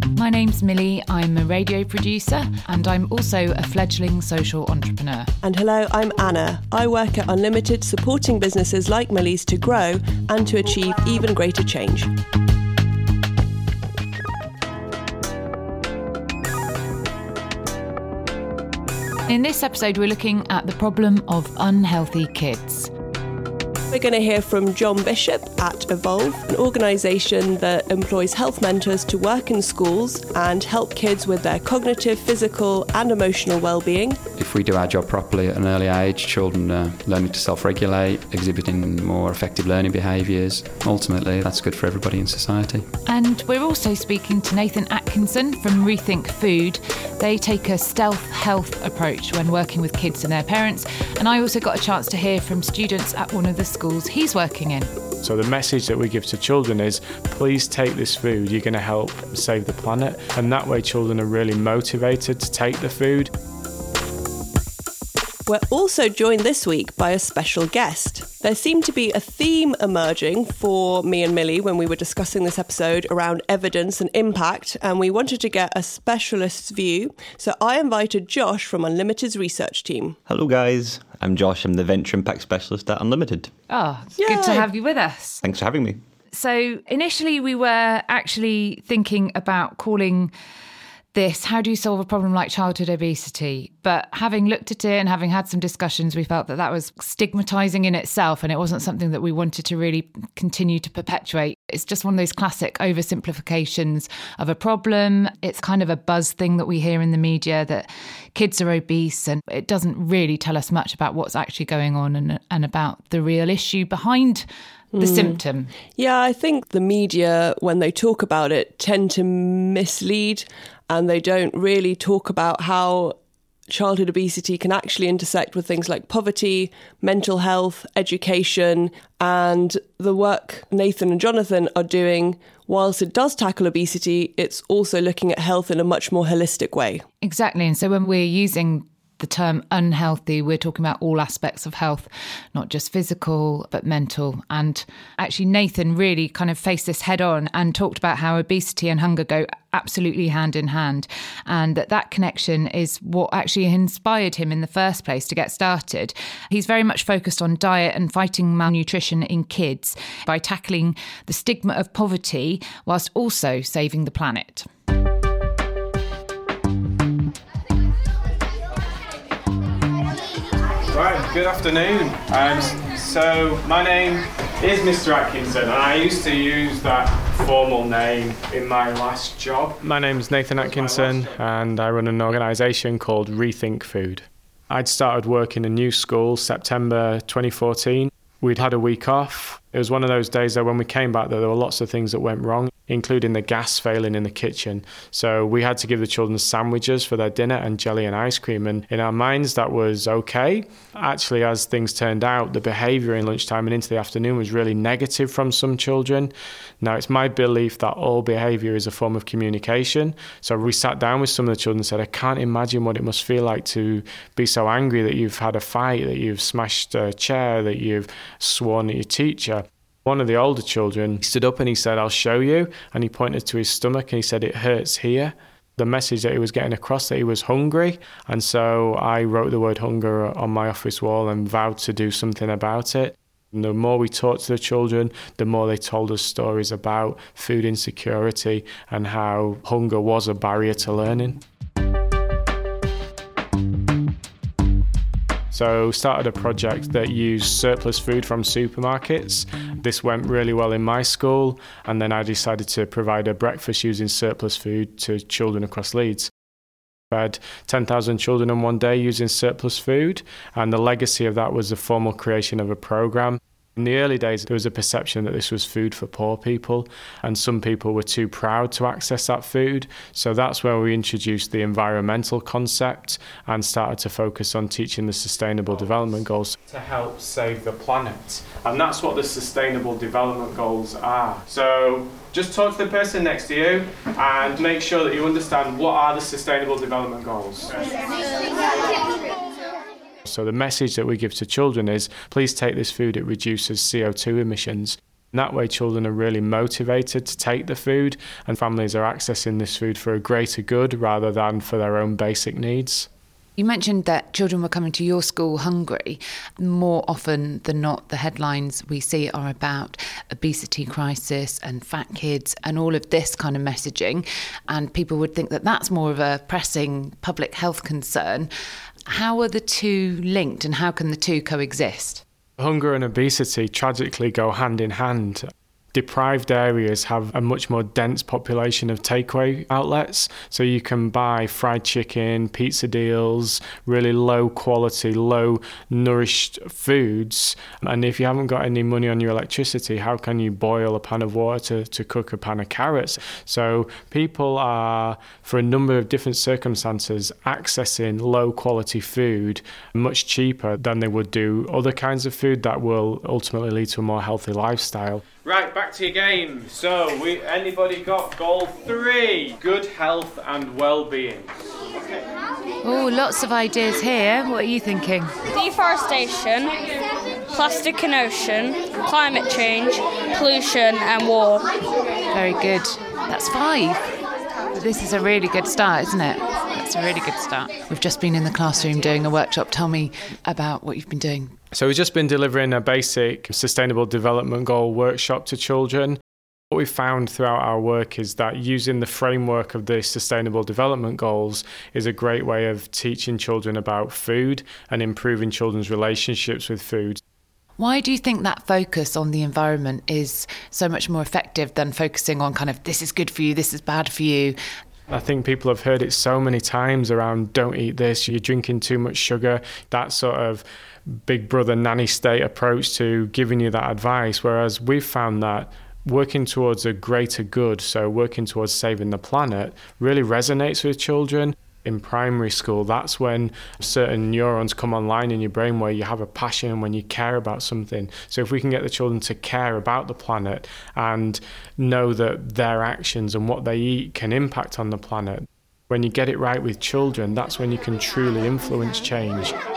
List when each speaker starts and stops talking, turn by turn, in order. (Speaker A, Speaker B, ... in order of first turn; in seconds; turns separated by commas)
Speaker A: 0.2-5.3, Speaker B: 5.4-12.1, Speaker A: 19.3-22.9, Speaker B: 23.9-34.2, Speaker C: 34.4-42.9, Speaker A: 43.1-54.9, Speaker D: 55.2-63.3, Speaker B: 65.5-80.2, Speaker E: 80.3-83.5, Speaker A: 83.7-85.4, Speaker B: 84.2-84.7, Speaker E: 85.4-86.0, Speaker A: 86.3-90.3, Speaker A: 91.1-115.7, Speaker B: 114.9-115.4, Speaker B: 116.0-123.2, Speaker B: 123.7-137.0, Speaker A: 137.2-164.7, Speaker D: 170.9-241.4, Speaker D: 245.5-256.3, Speaker D: 257.1-287.9, Speaker D: 290.3-303.1, Speaker A: 303.6-318.5, Speaker A: 319.1-322.2, Speaker D: 322.6-361.5, Speaker A: 362.8-365.3, Speaker F: 365.5-366.8, Speaker F: 367.5-371.7, Speaker A: 372.3-374.1, Speaker A: 374.8-381.6, Speaker D: 381.7-386.2, Speaker D: 386.7-397.2, Speaker A: 397.8-404.6, Speaker D: 405.1-439.6